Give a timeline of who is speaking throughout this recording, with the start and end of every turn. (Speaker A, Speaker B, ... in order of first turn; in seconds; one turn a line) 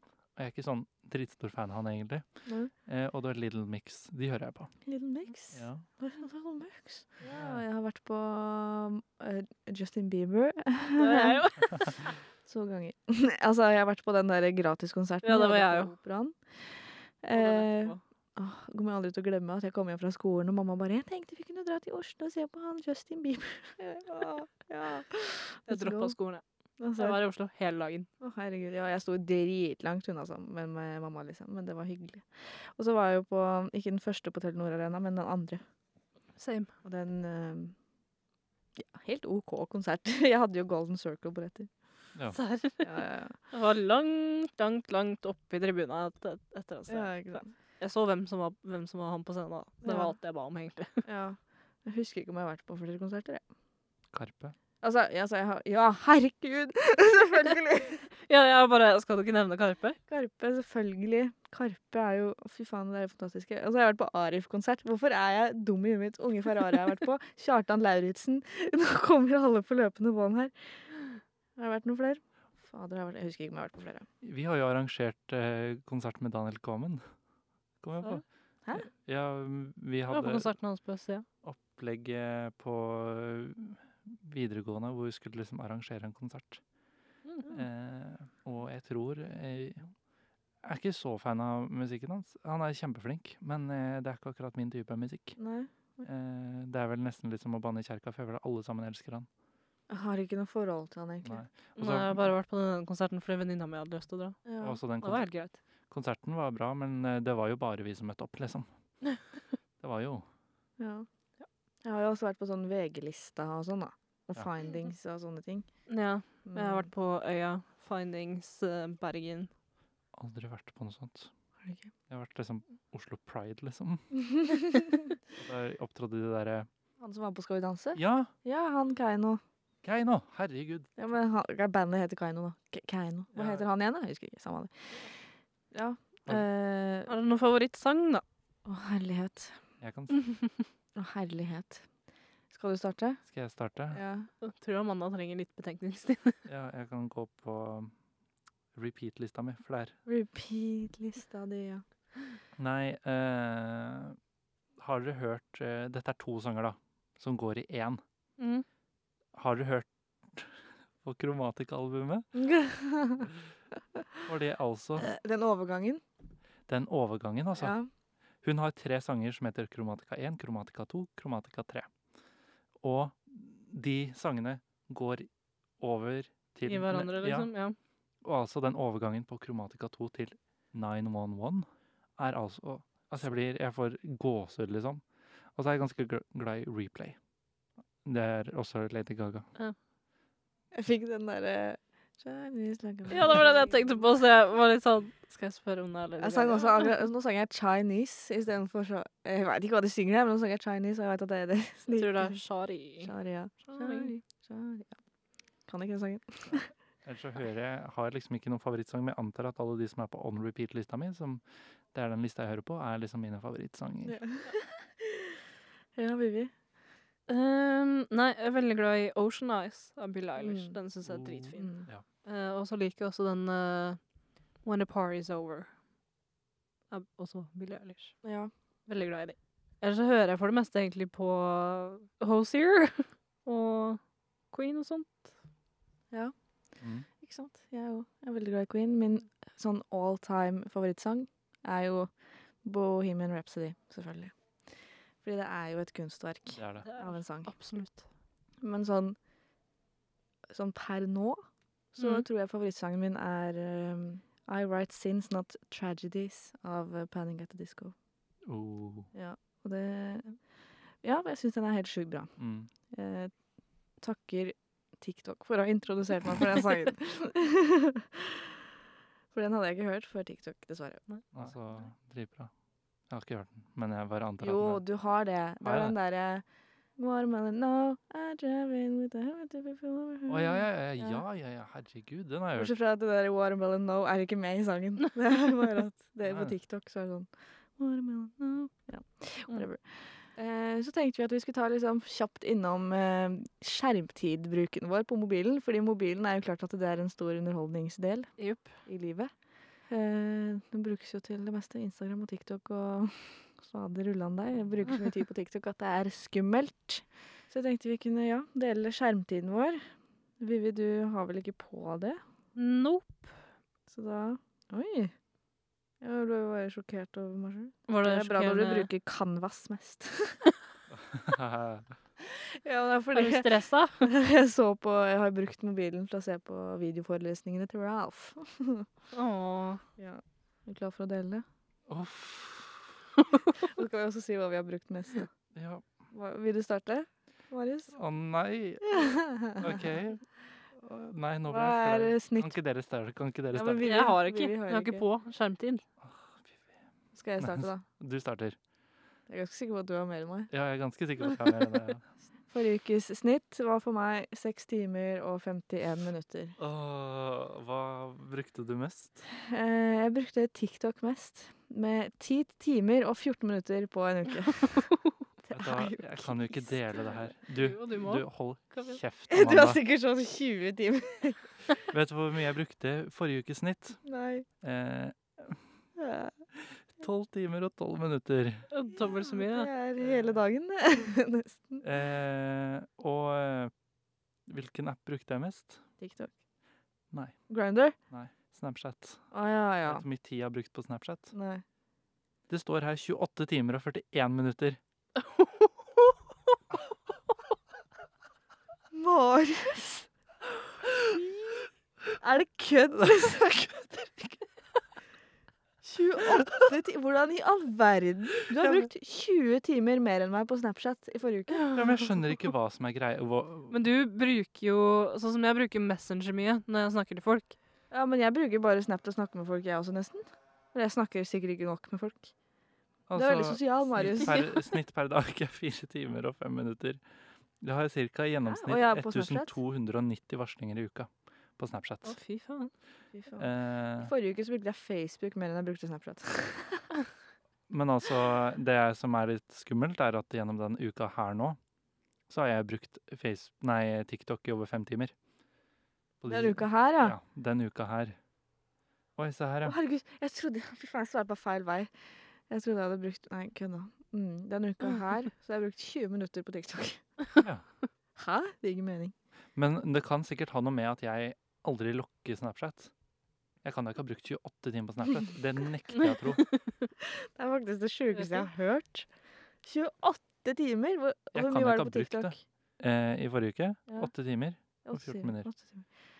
Speaker A: 0.3-2.2
Speaker B: 2.5-2.7
Speaker A: 2.8-4.7
Speaker B: 4.8-26.1
Speaker A: 5.5-5.8
Speaker A: 7.3-7.6
Speaker C: 11.0-12.0
Speaker C: 15.2-15.9
Speaker C: 17.3-18.0
Speaker C: 25.7-26.4
Speaker B: 26.8-27.2
Speaker C: 26.9-28.1
Speaker B: 28.2-35.6
Speaker C: 36.4-36.7
Speaker B: 36.8-37.8
Speaker B: 38.8-41.7
Speaker C: 42.3-51.0
Speaker B: 42.8-43.4
Speaker B: 46.9-47.5
Speaker B: 49.8-50.1
Speaker B: 51.0-53.4
Speaker A: 54.1-54.5
Speaker B: 54.8-58.1
Speaker C: 58.2-60.0
Speaker B: 60.1-70.9
Speaker B: 71.6-74.0
Speaker A: 74.2-77.0
Speaker A: 77.8-78.2
Speaker A: 78.9-80.5
Speaker C: 80.1-81.2
Speaker A: 81.4-86.6
Speaker C: 87.2-87.5
Speaker A: 87.5-89.9
Speaker A: 90.6-95.4
Speaker B: 95.4-96.0
Speaker A: 96.0-99.3
Speaker B: 99.9-101.4
Speaker A: 101.2-102.3
Speaker C: 101.8-104.4
Speaker B: 104.5-104.8
Speaker A: 104.6-105.3
Speaker C: 105.0-105.6
Speaker A: 105.9-108.7
Speaker A: 109.8-110.2
Speaker B: 110.8-111.1
Speaker B: 111.8-115.7
Speaker C: 115.9-119.5
Speaker B: 116.5-116.9
Speaker A: 120.1-121.3
Speaker B: 121.6-121.9
Speaker A: 122.1-124.5
Speaker B: 124.1-125.1
Speaker A: 125.4-126.7
Speaker B: 127.0-129.4
Speaker A: 128.0-128.3
Speaker A: 129.8-130.9
Speaker B: 131.0-135.1
Speaker A: 133.3-133.7
Speaker B: 135.7-137.1
Speaker C: 137.1-138.2
Speaker B: 138.7-139.6
Speaker A: 139.8-140.2
Speaker B: 140.9-141.8
Speaker B: 142.5-143.2
Speaker A: 143.3-144.0
Speaker B: 143.9-144.3
Speaker C: 144.4-146.4
Speaker A: 146.4-147.9
Speaker A: 148.7-149.9
Speaker B: 150.1-151.8
Speaker A: 152.6-154.2
Speaker A: 154.8-158.0
Speaker C: 158.4-158.6
Speaker A: 159.3-162.3
Speaker B: 162.3-163.3
Speaker A: 164.2-165.1
Speaker B: 165.0-166.0
Speaker A: 166.7-167.7
Speaker B: 167.6-167.9
Speaker A: 168.4-171.9
Speaker A: 172.8-175.3
Speaker A: 175.8-177.5
Speaker C: 176.6-177.8
Speaker A: 178.2-185.0
Speaker A: 185.6-187.2
Speaker A: 188.0-189.5
Speaker B: 190.7-194.1
Speaker C: 193.1-196.9
Speaker B: 196.2-202.4
Speaker C: 201.9-203.1
Speaker B: 203.0-204.9
Speaker C: 203.6-204.1
Speaker B: 205.7-206.7
Speaker A: 207.0-211.4
Speaker A: 211.9-214.2
Speaker B: 214.1-215.4
Speaker B: 215.9-216.5
Speaker C: 217.3-221.7
Speaker B: 220.4-220.8
Speaker A: 221.0-222.0
Speaker B: 221.6-221.9
Speaker C: 222.2-224.0
Speaker C: 224.6-225.7
Speaker C: 226.9-228.2
Speaker B: 228.2-228.5
Speaker C: 228.9-234.0
Speaker C: 234.5-235.3
Speaker A: 236.8-237.1
Speaker B: 237.2-242.1
Speaker B: 242.6-244.3
Speaker B: 245.2-247.5
Speaker A: 246.5-246.9
Speaker C: 246.8-248.0
Speaker B: 248.6-249.2
Speaker B: 250.5-257.9
Speaker C: 252.0-252.2
Speaker A: 258.4-259.1
Speaker B: 259.1-260.4
Speaker B: 261.0-262.3
Speaker A: 262.4-262.7
Speaker B: 262.9-263.3
Speaker B: 264.0-268.5
Speaker B: 269.3-271.0
Speaker A: 271.3-272.5
Speaker A: 273.1-274.8
Speaker B: 274.4-276.4
Speaker A: 275.6-275.9
Speaker B: 277.0-281.2
Speaker A: 280.3-282.7
Speaker B: 282.6-298.3
Speaker A: 286.2-286.5
Speaker C: 298.4-298.8
Speaker B: 298.8-299.3
Speaker B: 299.9-312.2
Speaker C: 312.5-313.4
Speaker B: 313.9-315.1
Speaker B: 316.0-320.4
Speaker C: 317.9-318.9
Speaker A: 320.9-321.9
Speaker B: 322.2-323.5
Speaker C: 323.1-324.1
Speaker B: 324.0-328.9
Speaker C: 329.1-329.8
Speaker B: 330.0-331.4
Speaker A: 331.9-332.9
Speaker B: 333.5-335.3
Speaker A: 335.5-335.8
Speaker B: 336.1-337.9
Speaker A: 337.9-340.2
Speaker B: 338.9-339.8
Speaker A: 340.8-343.9
Speaker B: 341.4-342.6
Speaker B: 343.5-345.1
Speaker C: 343.8-345.8
Speaker A: 346.0-346.6
Speaker B: 347.1-347.8
Speaker A: 347.4-348.6
Speaker B: 349.3-350.5
Speaker A: 350.5-352.1
Speaker B: 352.5-356.6
Speaker A: 356.6-359.2
Speaker B: 359.4-364.9
Speaker B: 365.4-366.8
Speaker A: 365.5-369.8
Speaker C: 367.5-369.0
Speaker B: 369.3-371.5
Speaker A: 371.9-374.0
Speaker B: 374.0-374.4
Speaker A: 374.6-375.6
Speaker B: 375.9-376.4
Speaker A: 376.5-378.7
Speaker C: 378.7-379.7
Speaker B: 379.0-381.8
Speaker A: 380.0-380.4
Speaker A: 381.8-383.7
Speaker A: 384.4-385.8
Speaker B: 386.0-386.3
Speaker A: 387.1-387.4
Speaker B: 387.5-387.9
Speaker A: 388.1-389.3
Speaker B: 389.3-390.1
Speaker A: 389.8-391.3
Speaker B: 391.3-391.6
Speaker A: 392.5-394.8
Speaker C: 395.2-396.1
Speaker B: 398.9-400.1
Speaker B: 400.9-401.6
Speaker B: 402.2-404.4
Speaker B: 405.8-411.8
Speaker A: 408.6-408.9
Speaker A: 411.7-413.8
Speaker C: 413.7-417.6
Speaker B: 417.9-422.3
Speaker A: 423.1-427.0
Speaker B: 423.1-424.5
Speaker A: 427.6-432.1
Speaker B: 428.5-429.5
Speaker C: 432.0-432.7
Speaker B: 433.1-436.9
Speaker A: 433.4-434.1
Speaker A: 437.7-441.6
Speaker A: 442.3-445.1
Speaker A: 446.2-448.2
Speaker B: 446.3-447.1
Speaker A: 449.1-449.8
Speaker B: 449.6-451.9
Speaker B: 452.5-457.1
Speaker B: 458.1-459.1
Speaker A: 459.6-462.9
Speaker A: 463.6-466.4
Speaker C: 465.9-466.7
Speaker B: 467.0-469.1
Speaker C: 468.1-468.4
Speaker B: 469.6-472.4
Speaker A: 471.3-475.5
Speaker B: 474.8-475.9